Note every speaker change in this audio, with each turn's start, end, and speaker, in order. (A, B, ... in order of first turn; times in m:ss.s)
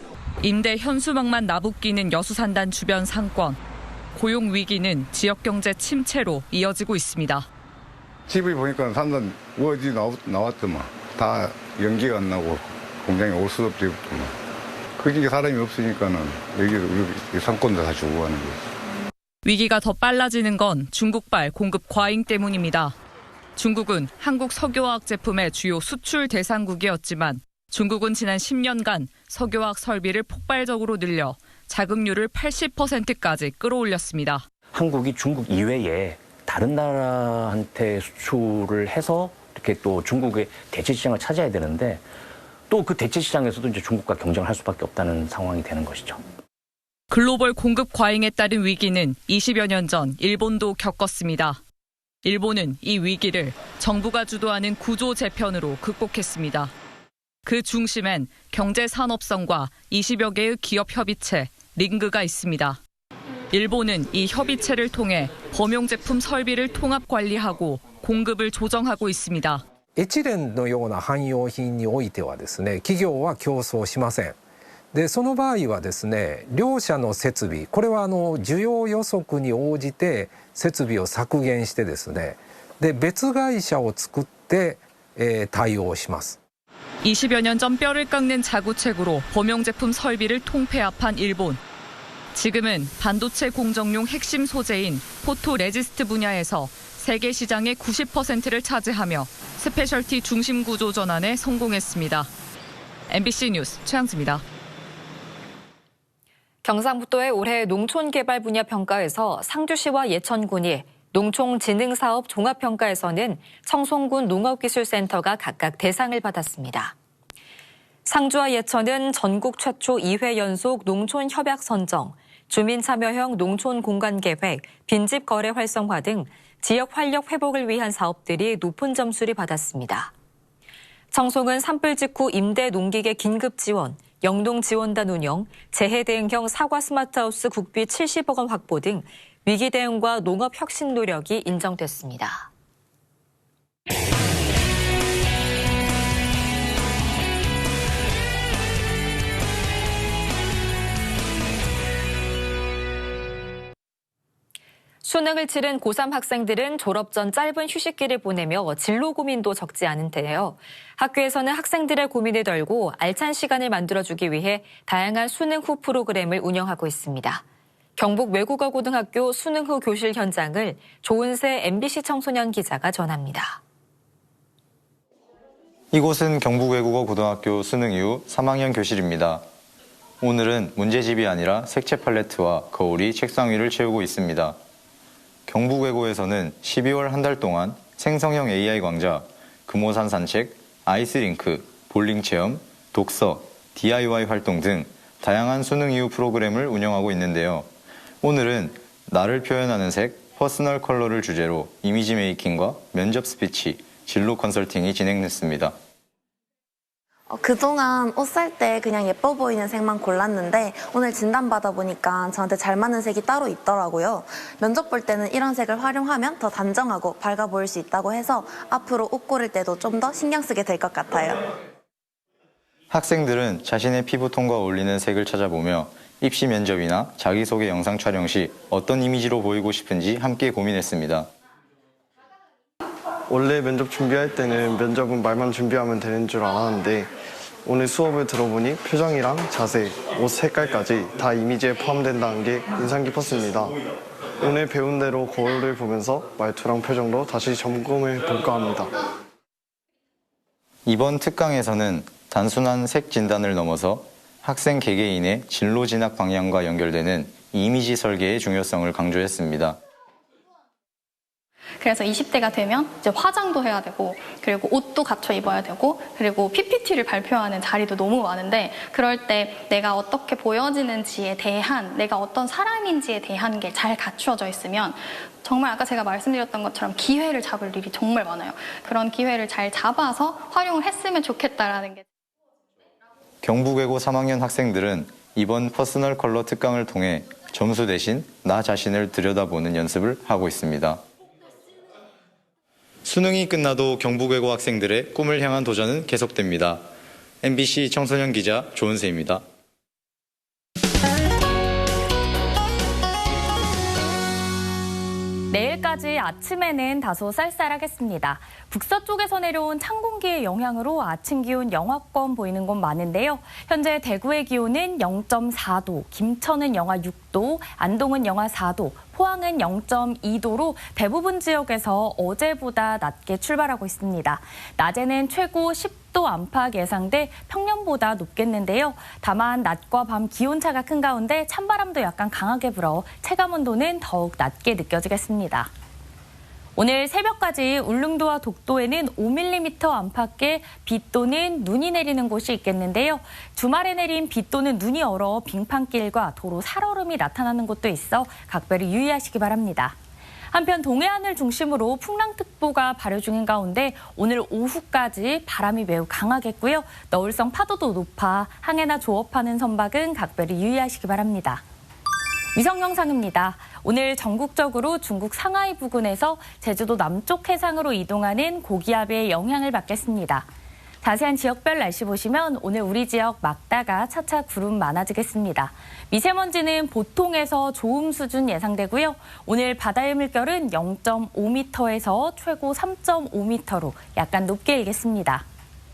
0:00.4-0:03.6 A
0:04.1-0:07.5 A
0:08.3-0:14.3 B
0:15.0-0:18.6 B
0:19.4-0:23.0 A
0:23.6-0:34.5 A
0:34.7-0:42.0 C
0:42.7-0:46.2 C
0:47.1-0:51.6 A
0:52.2-0:56.7 A
0:57.4-1:02.8 A
1:03.5-1:09.6 A
1:09.9-1:14.4 D
1:14.9-1:26.4 D
1:27.0-1:31.6 A
1:32.3-1:42.3 A
1:43.1-1:44.4 A
1:46.6-1:56.9 E
1:58.0-2:10.1 E
2:11.1-2:22.5 E
2:35.0-2:47.4 E
2:48.0-2:53.6 E
2:55.9-2:59.4 F
3:00.2-3:04.6 F
3:05.5-3:17.7 F
3:18.2-3:25.7 F
3:27.3-3:41.5 G
3:42.9-3:51.3 F
3:53.3-3:57.1 H
3:57.6-4:03.8 H
4:04.4-4:08.9 H
4:10.8-4:19.8 F
4:21.8-4:42.0 I
4:43.4-4:51.0 F
4:53.0-4:56.8 F
4:57.4-4:59.4 F
5:05.5-5:35.7 J
5:36.8-5:50.0 J
5:50.5-6:01.6 J
6:02.5-6:10.5 J
6:11.0-6:25.4 J